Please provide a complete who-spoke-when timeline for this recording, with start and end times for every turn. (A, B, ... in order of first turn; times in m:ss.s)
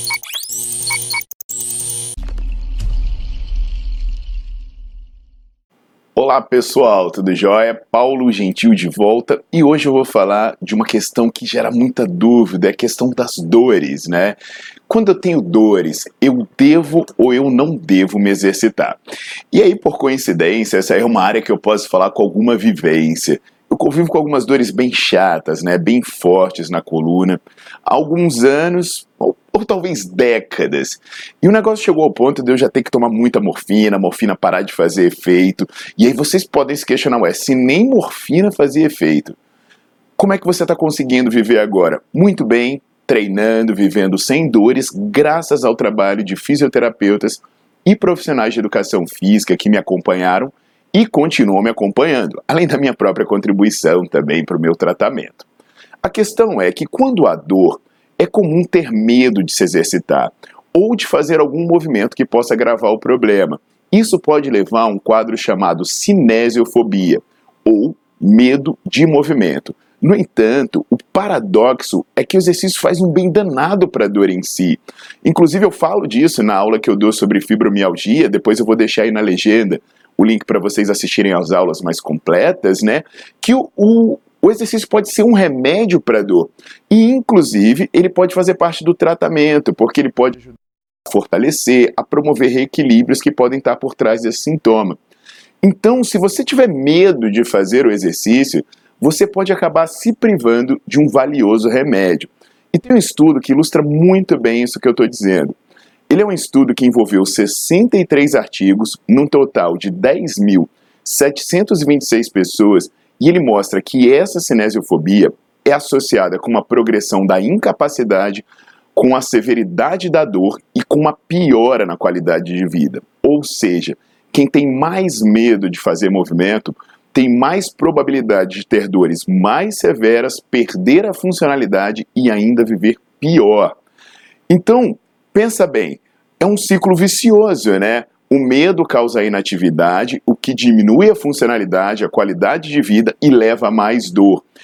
0:06.1-0:19.0 A
0:19.5-0:39.4 A
0:40.2-0:55.5 A
0:56.0-1:35.0 A
1:35.6-1:45.6 A
1:46.1-2:13.8 A
2:14.5-2:24.4 A